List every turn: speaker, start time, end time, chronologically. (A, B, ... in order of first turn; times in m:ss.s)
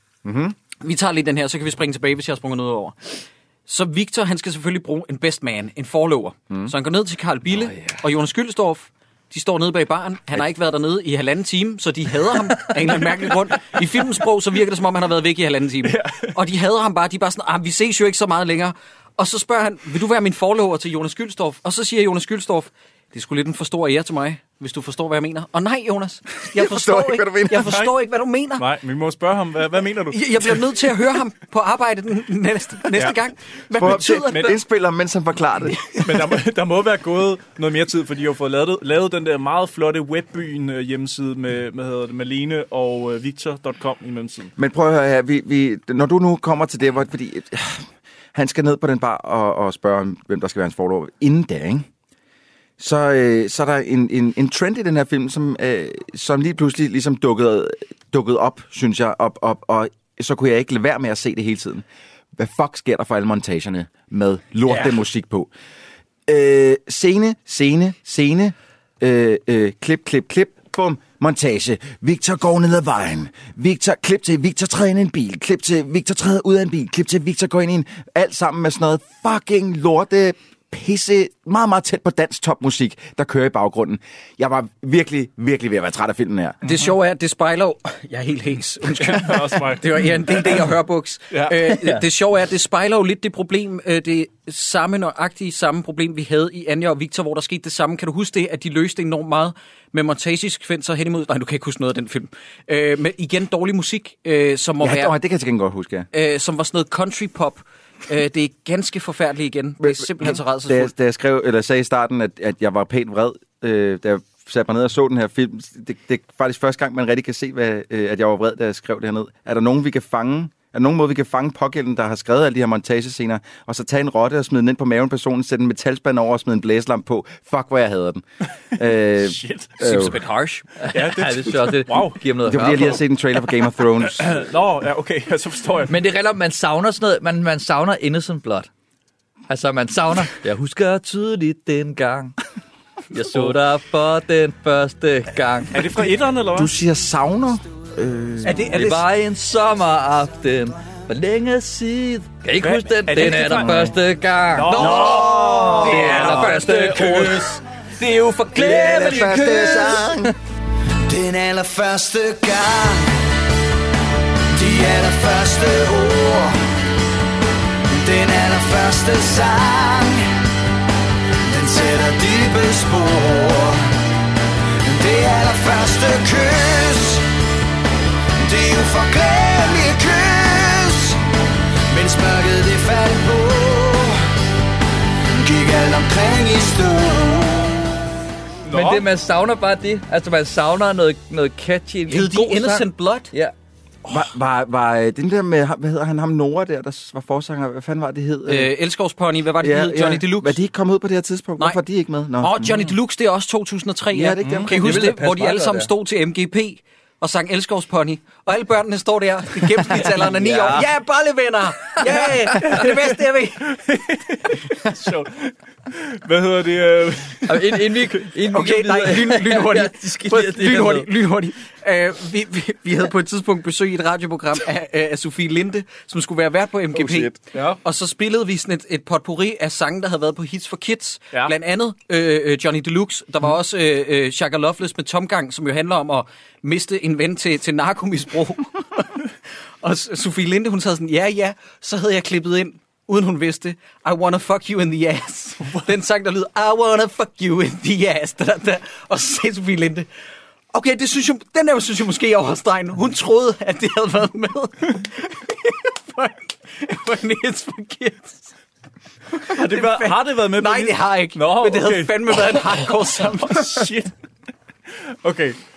0:00.2-0:00.5 A
0:00.8-0:03.0 B
0:03.7-0:28.6 B
0:07.6-0:08.0 C
0:15.8-0:16.3 D
0:26.5-0:27.7 A
0:27.6-0:27.9 D
0:28.6-0:30.6 D
0:30.1-0:34.5 B
0:33.7-0:35.8 A
0:34.3-0:34.5 D
0:36.0-0:44.5 D
0:44.6-0:47.8 A
0:48.3-0:51.9 A
0:52.8-1:01.8 A
1:02.4-1:05.5 A
1:06.3-1:26.6 A
1:26.6-1:45.1 B
1:29.0-1:30.6 D
1:31.3-1:31.7 D
1:44.8-1:46.1 A
1:46.1-1:50.9 B
1:49.8-2:08.2 A
2:08.7-2:10.2 A
2:09.2-2:09.7 D
2:09.8-2:10.6 B
2:10.8-2:13.0 C
2:10.9-2:12.2 D
2:12.4-2:14.4 A
2:14.0-2:15.9 D
2:15.9-2:18.7 C
2:19.5-2:22.3 C
2:23.1-2:25.8 C
2:25.7-2:26.7 D
2:26.5-2:28.8 A
2:28.4-2:29.0 B
2:28.7-2:37.4 C
2:32.6-2:33.9 D
2:33.5-2:33.9 A
2:34.5-2:36.6 D
2:34.7-2:39.4 B
2:35.0-2:35.8 E
2:35.1-2:36.1 A
2:38.5-2:40.3 A
2:38.5-2:39.5 C
2:38.6-2:40.0 E
2:41.1-2:43.2 E
2:44.5-2:46.6 E
2:47.9-2:50.2 E
2:51.4-2:54.0 E
2:54.8-2:57.2 E
2:58.4-3:01.2 E
3:01.9-3:04.2 E
3:05.3-3:07.8 E
3:08.6-3:09.1 D
3:08.7-3:13.5 C
3:12.1-3:13.3 B
3:14.0-3:18.7 A
3:18.5-3:20.6 B
3:19.6-3:22.8 A
3:22.4-3:33.6 B
3:24.1-3:25.1 A
3:24.4-3:24.7 D
3:24.7-3:25.9 C
3:29.8-3:30.9 C
3:32.1-3:32.8 C
3:32.5-3:32.9 D
3:33.6-3:38.3 D
3:37.5-3:41.1 C
3:38.5-3:59.2 B
3:46.9-3:47.3 A
3:47.5-3:47.8 D
3:59.8-4:10.1 B
4:10.7-4:18.5 B
4:19.5-4:22.7 D
4:19.5-4:23.6 B
4:23.4-4:24.1 D
4:25.2-4:25.6 D